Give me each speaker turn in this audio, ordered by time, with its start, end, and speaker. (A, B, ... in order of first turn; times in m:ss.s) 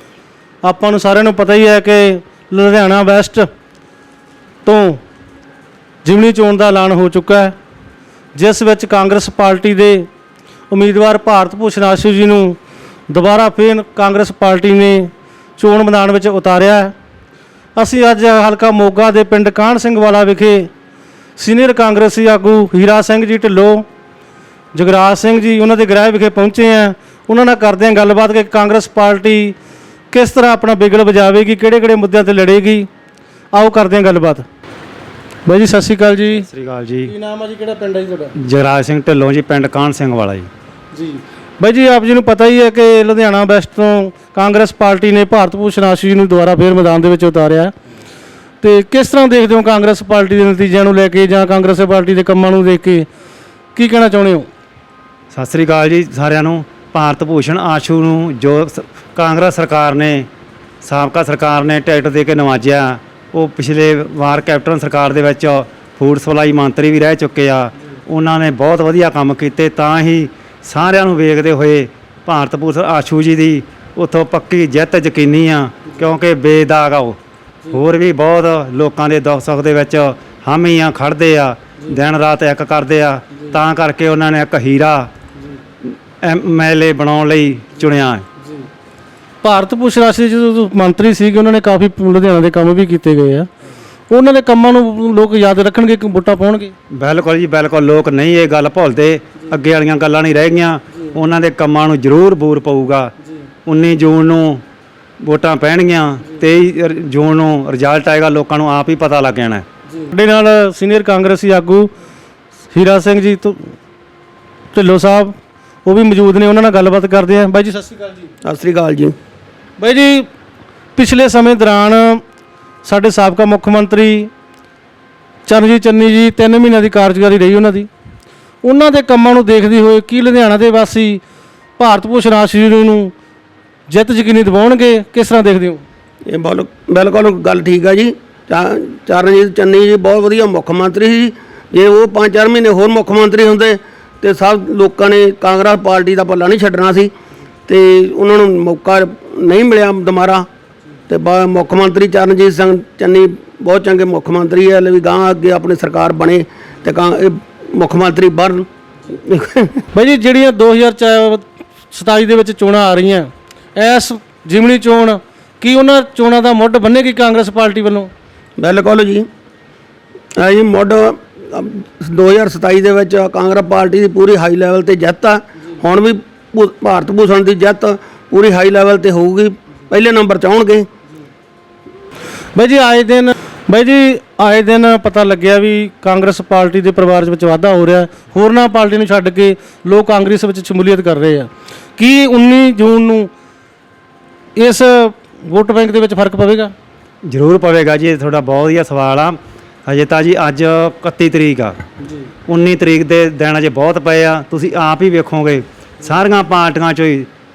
0:00.6-0:03.5 A
0:04.6-0:05.0 A
0:06.0-0:07.5 A
0:08.4-0:10.1 A
0:10.7-0:16.9 A
0:17.8-0:20.7 A
0:21.4-0:23.8 A
0:24.7-0:29.6 A
0:30.1-0:32.9 A
0:33.5-0:34.5 A
0:35.5-0:36.5 A
0:36.3-0:37.1 B
0:37.1-0:38.3 A
0:38.4-0:40.5 B
0:40.9-0:47.7 A
0:48.6-0:53.1 A
0:53.8-0:54.5 A
0:55.3-1:00.3 B
1:00.8-1:25.1 B
1:25.8-1:28.3 B
1:29.4-1:33.5 A
1:34.1-1:36.7 A
1:36.9-1:43.1 B
1:43.7-1:44.6 B
1:45.2-1:49.6 B
1:50.0-1:51.9 A
1:52.7-1:53.7 A
1:54.7-1:58.3 A
1:58.4-1:59.2 C
1:59.8-2:00.3 A
2:01.0-2:02.2 A
2:02.8-2:04.3 A
2:05.5-2:07.9 A
2:08.6-2:11.2 A
2:11.8-2:13.1 A
2:13.9-2:15.8 A
2:16.3-2:27.1 C
2:27.7-2:30.5 C
2:31.1-2:39.8 C
2:39.9-2:48.1 A
2:48.6-2:49.3 C
2:50.4-3:00.9 C
3:02.6-3:13.3 A
3:14.6-3:16.7 A
3:17.2-3:21.8 B
3:22.5-3:27.3 B